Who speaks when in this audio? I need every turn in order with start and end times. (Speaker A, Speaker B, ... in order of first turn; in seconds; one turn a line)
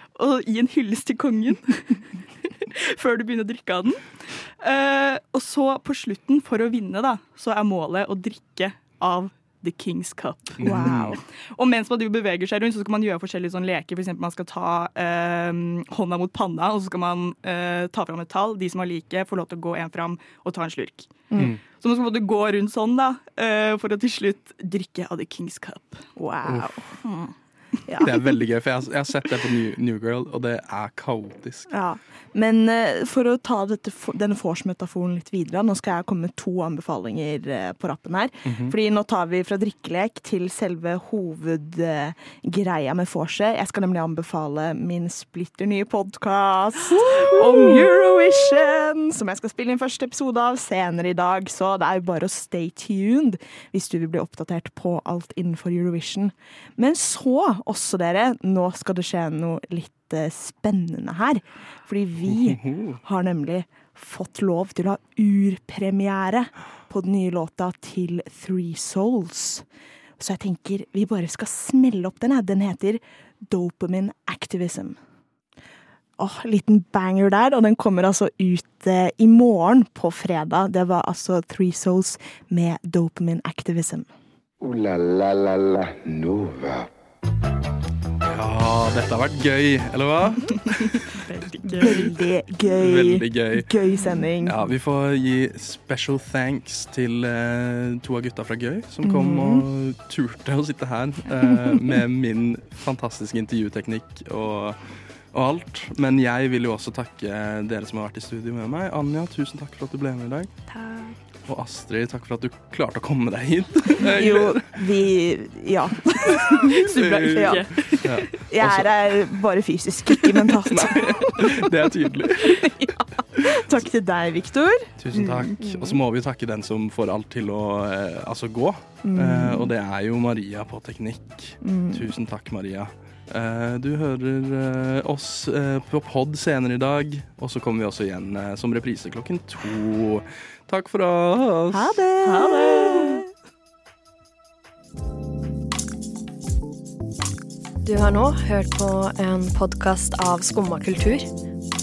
Speaker A: 0.2-21.2
Speaker B: 10.6-11.2
Speaker C: 10.6-11.2
Speaker C: 21.3-21.6
Speaker A: 21.8-26.1
Speaker C: 26.2-26.8
Speaker B: 26.4-26.8
Speaker A: 27.0-27.3
Speaker C: 27.9-28.1
Speaker B: 28.0-31.7
Speaker C: 31.7-69.7
Speaker B: 38.5-38.8
Speaker B: 62.2-63.0
Speaker C: 70.2-75.0
Speaker C: 76.2-84.1
Speaker D: 84.6-86.9
Speaker B: 88.2-91.0
Speaker A: 90.5-92.1
Speaker C: 91.7-94.6
Speaker B: 92.7-93.7
Speaker B: 94.4-104.8
Speaker C: 99.0-99.7
Speaker B: 105.3-110.5
Speaker A: 110.7-111.2
Speaker B: 111.5-114.7
Speaker C: 114.0-117.8
Speaker B: 116.3-118.9
Speaker A: 116.7-118.3
Speaker C: 118.5-121.8
Speaker B: 120.7-122.8
Speaker C: 122.4-124.9
Speaker B: 125.0-142.0
Speaker A: 125.1-125.6
Speaker C: 125.6-126.0
Speaker C: 129.0-129.7
Speaker C: 131.6-132.1
Speaker C: 141.7-143.3
Speaker A: 142.2-143.2
Speaker E: 147.8-151.3